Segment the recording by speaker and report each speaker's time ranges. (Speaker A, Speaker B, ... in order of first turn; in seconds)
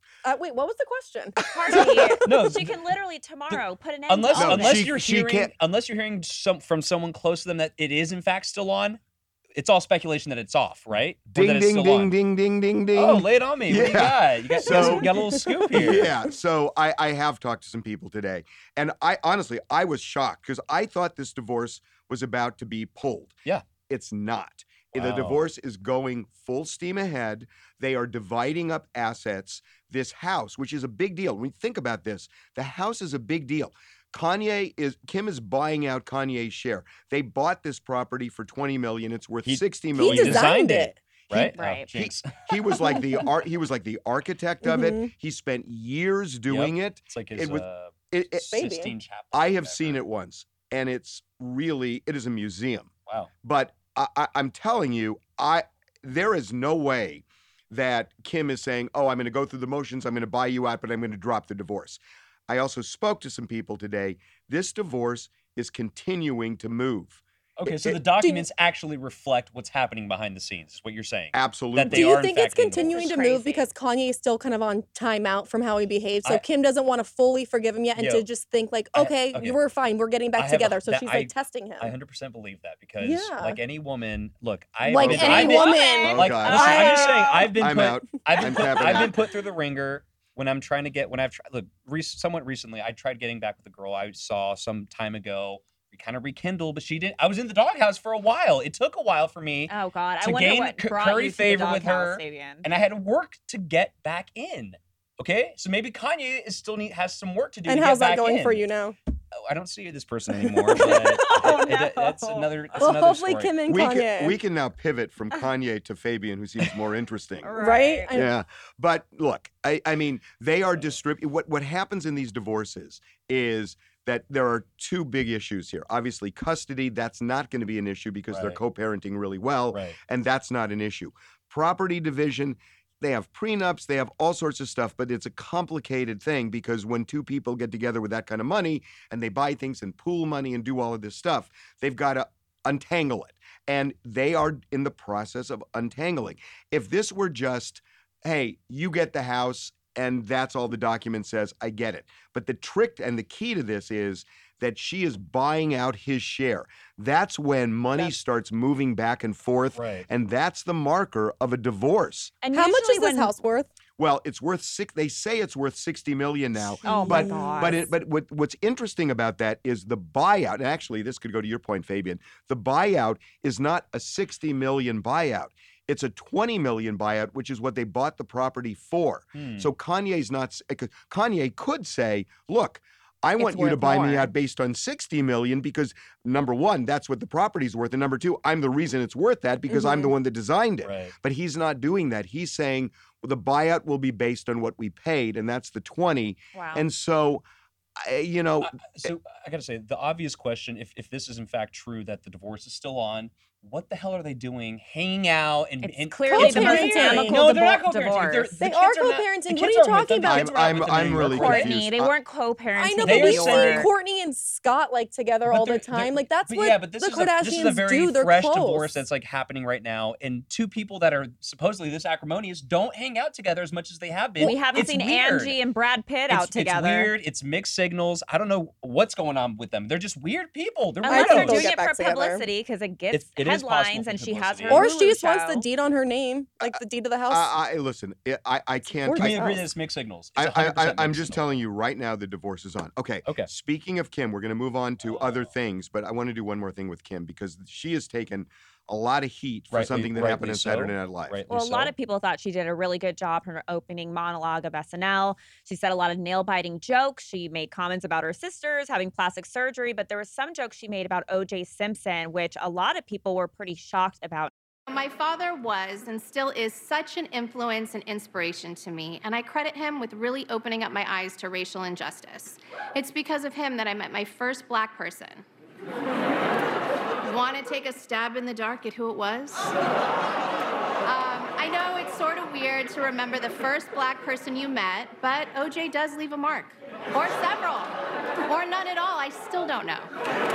Speaker A: 0.2-2.5, 14.6-16.2, 40.0-41.0, 44.6-45.1, 48.5-48.9, 67.7-68.5, 71.9-82.0, 83.0-83.6, 84.8-87.8, 88.4-89.1, 107.7-109.0, 110.4-111.5, 112.8-114.3, 117.5-118.3, 162.5-163.7, 166.8-167.9, 183.4-184.3, 189.7-190.1, 206.3-207.4, 208.6-210.6, 212.8-218.9, 231.1-232.4, 234.7-237.5, 239.1-239.6
Speaker B: 1.4-4.9, 41.3-41.9, 72.8-73.7, 85.2-87.3, 99.7-102.7, 110.8-112.5, 117.4-118.2, 162.4-163.3, 166.8-167.9, 183.4-184.2, 196.6-196.9, 205.8-208.6, 211.2-213.9, 224.4-227.1, 231.0-235.7, 251.5-264.5
Speaker C: 1.7-2.7, 3.5-9.0, 9.6-12.1, 12.9-16.1, 24.9-25.5, 39.5-42.6, 46.5-50.0, 67.6-73.0, 78.0-78.3, 78.9-79.6, 80.4-108.7, 109.4-113.6, 128.3-128.6, 129.7-130.0, 159.8-160.1, 179.4-179.7, 190.8-191.2, 198.6-211.8, 213.0-213.9, 215.4-225.6, 226.3-231.7, 233.1-234.9, 239.1-241.4, 243.2-243.5, 245.0-245.5, 249.7-251.9
Speaker D: 4.3-5.5, 11.3-15.1, 15.7-40.5, 42.0-48.6, 49.3-52.9, 53.4-67.2, 71.3-72.1, 85.0-87.0, 87.5-89.2, 113.7-117.5, 118.1-162.3, 164.0-197.4, 198.0-199.1, 210.2-212.1, 236.6-239.5, 240.4-251.4
Speaker E: 264.9-275.4, 277.2-279.7, 281.0-290.1